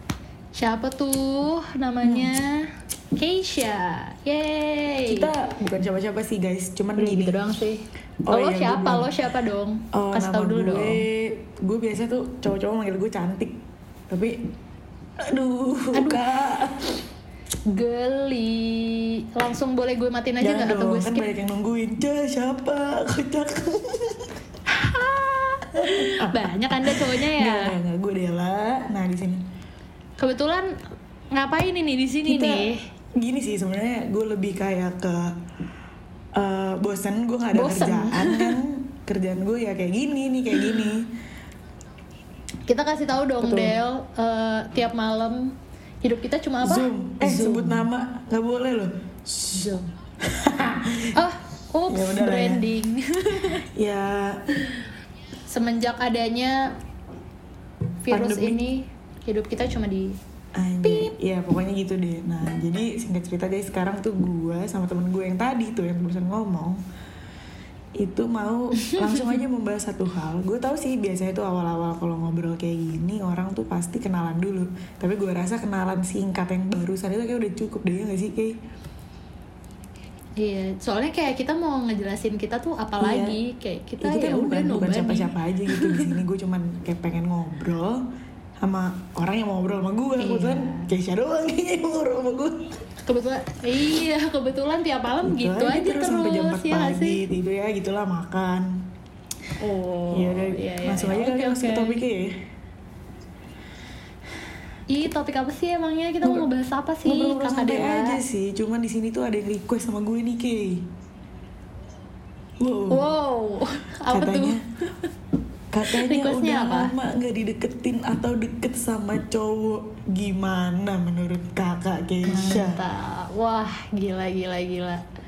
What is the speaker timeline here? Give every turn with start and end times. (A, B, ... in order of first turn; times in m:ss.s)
0:00.5-0:05.3 A
0:02.0-0:02.3 B
0:05.1-0:07.4 B
0:07.0-0:11.0 A
0:08.2-0:09.1 B
0:09.9-0:13.6 B
0:14.1-0:14.4 B
0:15.2-0:17.0 B
0:15.9-0:16.2 A
0:17.7-0:21.3 A
0:20.4-0:24.3 B
0:24.7-0:27.8 A
0:25.8-0:29.4 B
0:30.2-0:30.8 A
0:31.3-0:32.8 A
0:32.3-0:32.7 B
0:33.2-0:35.4 B
0:36.3-0:41.1 B
0:37.5-0:38.6 A
0:42.7-0:47.9 A
0:43.4-0:43.8 B
0:46.6-0:51.2 B
0:49.5-0:49.8 A
0:51.1-0:53.6 A
0:51.9-0:52.6 B
0:53.6-0:54.4 B
0:55.5-0:56.7 A
0:58.0-1:00.1 A
0:58.1-0:58.6 B
1:00.5-1:06.8 B
1:00.8-1:01.1 A
1:08.0-1:18.6 B
1:08.8-1:09.4 A
1:20.4-1:26.2 A
1:23.0-1:23.4 B
1:24.0-1:28.0 B
1:28.6-1:32.7 B
1:30.2-1:30.9 A
1:33.0-1:37.2 A
1:35.2-1:38.7 B
1:39.6-1:42.0 A
1:40.1-1:42.3 B
1:44.9-1:48.2 A
1:47.0-1:50.9 B
1:52.6-1:53.0 B
1:52.9-1:54.6 A
1:54.1-1:54.6 B
1:55.7-2:02.8 B
1:55.9-1:56.9 A
2:02.3-2:05.0 A